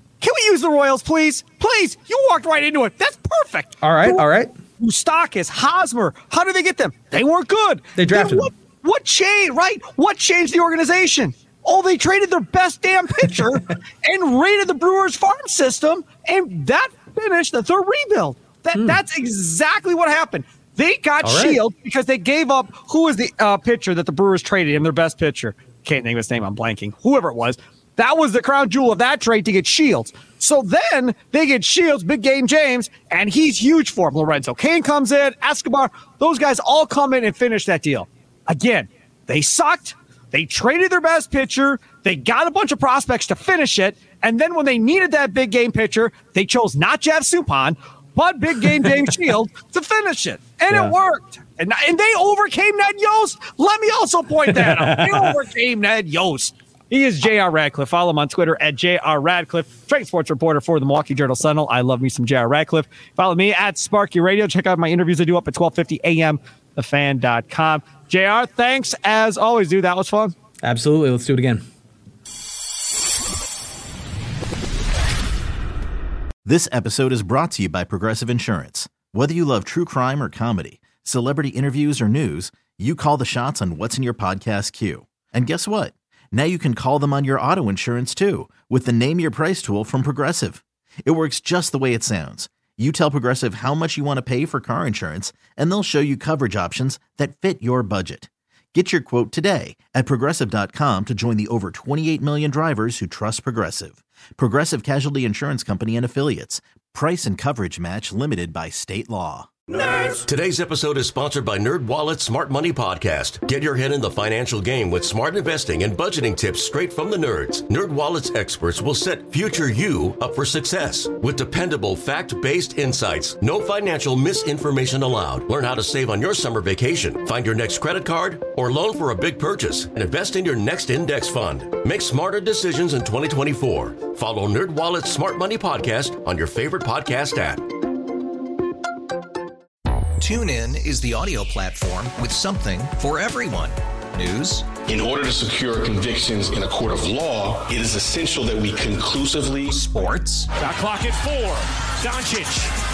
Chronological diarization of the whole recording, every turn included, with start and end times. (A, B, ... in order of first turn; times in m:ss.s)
0:00.2-0:04.2 A
0:03.8-0:04.5 B
0:04.8-1:10.3 A
0:08.0-0:08.5 B
0:21.2-0:21.6 B
0:48.6-0:48.9 B
0:54.5-0:55.4 B
1:10.6-1:11.6 B
1:16.4-1:49.5 C
1:49.7-1:50.2 D
1:50.2-2:17.7 E
2:20.2-2:24.7 F
2:24.8-2:29.8 G
2:29.7-2:30.5 F
2:30.6-2:32.7 D